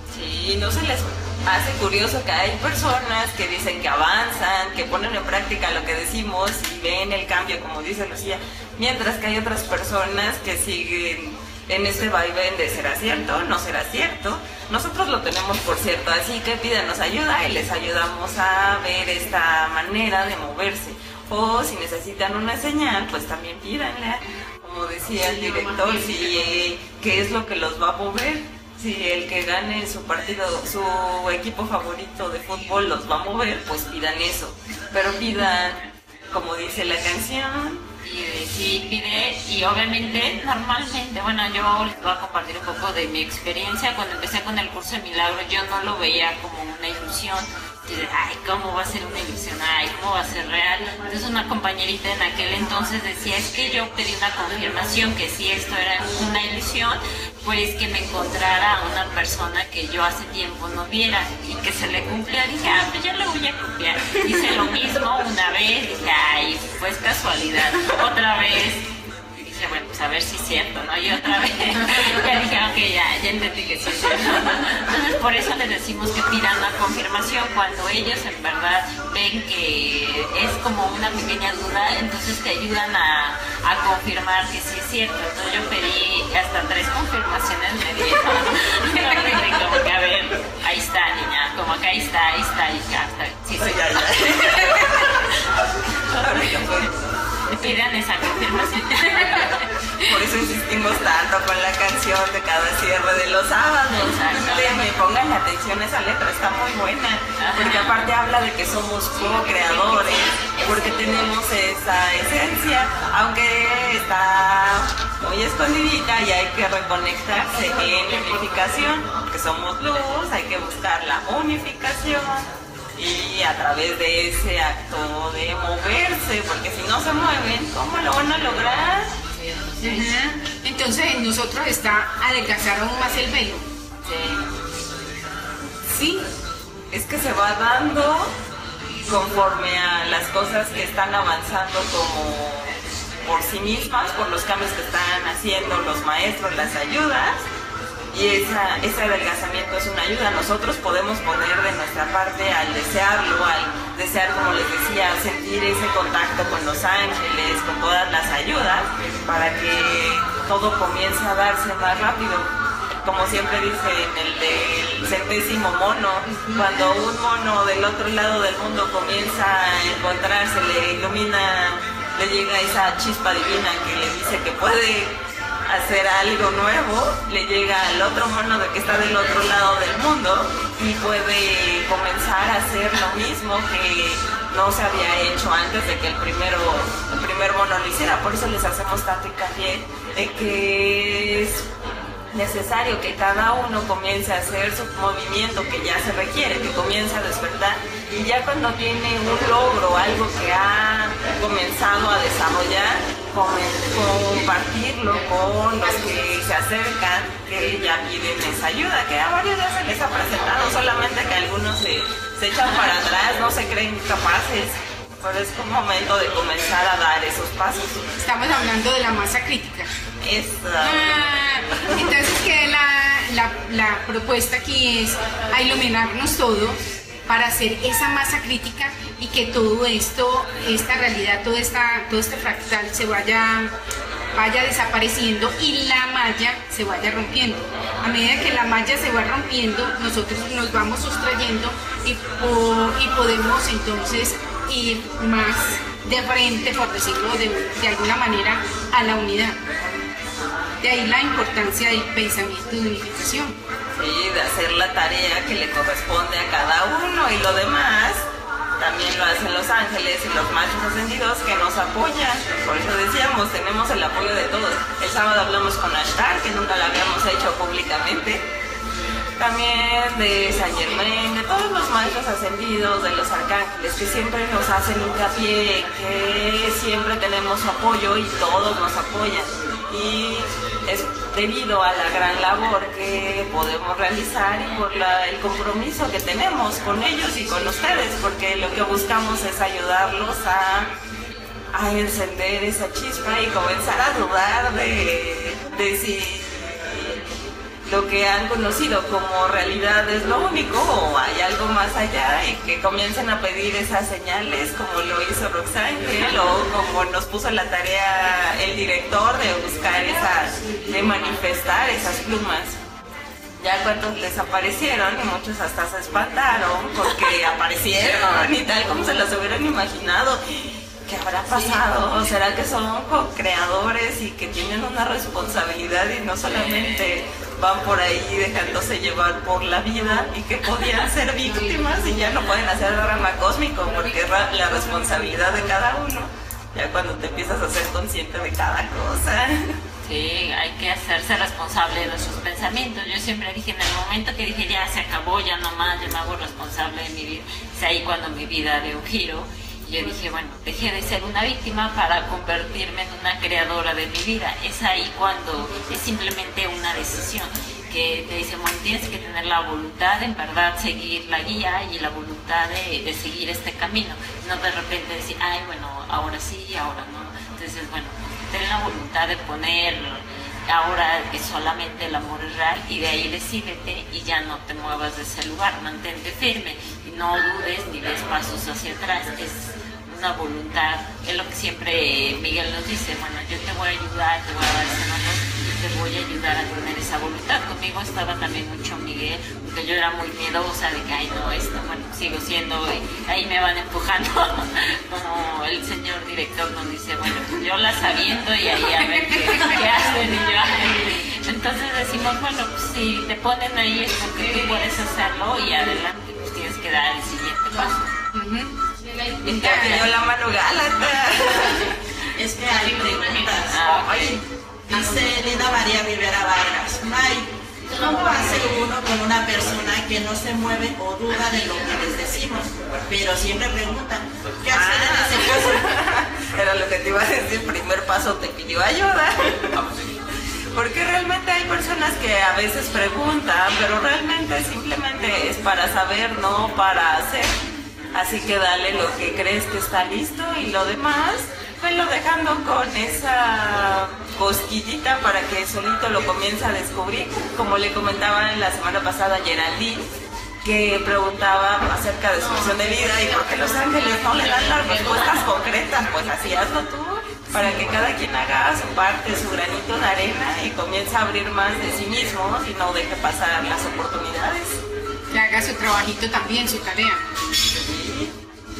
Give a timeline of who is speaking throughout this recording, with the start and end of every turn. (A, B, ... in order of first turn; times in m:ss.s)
0:00.1-0:37.9 A
0:38.0-1:35.2 B
1:33.6-1:35.4 A
1:36.0-1:36.4 B
1:36.1-1:37.1 A
1:37.5-1:39.7 B
1:40.0-2:09.2 A
1:44.0-1:44.8 B
1:47.4-1:48.0 B
2:09.8-2:13.6 C
2:14.1-2:14.4 B
2:15.9-2:16.3 C
2:16.9-2:18.4 A
2:19.0-2:27.5 A
2:28.1-2:42.5 A
2:43.0-3:11.7 A
3:12.3-3:38.1 A
3:38.2-3:39.9 C
3:40.2-3:41.2 A
3:40.8-3:53.7 C
3:41.8-3:42.1 A
3:54.3-4:09.6 C
4:10.8-4:13.6 C
4:13.9-4:18.2 A
4:18.8-4:28.5 A
4:29.4-4:50.9 A
4:51.7-4:57.2 A
4:57.8-5:12.8 A
5:13.6-5:39.8 A
5:40.0-6:48.1 B
6:48.3-6:48.7 C
6:49.4-6:52.0 A
6:49.4-6:50.1 C
6:52.3-6:54.3 D
6:53.7-6:54.4 B
6:54.9-7:05.8 D
7:04.7-7:09.9 A
7:10.7-7:17.6 A
7:18.1-7:30.1 A
7:30.6-7:44.8 A
7:45.3-7:47.3 C
7:47.7-7:48.3 A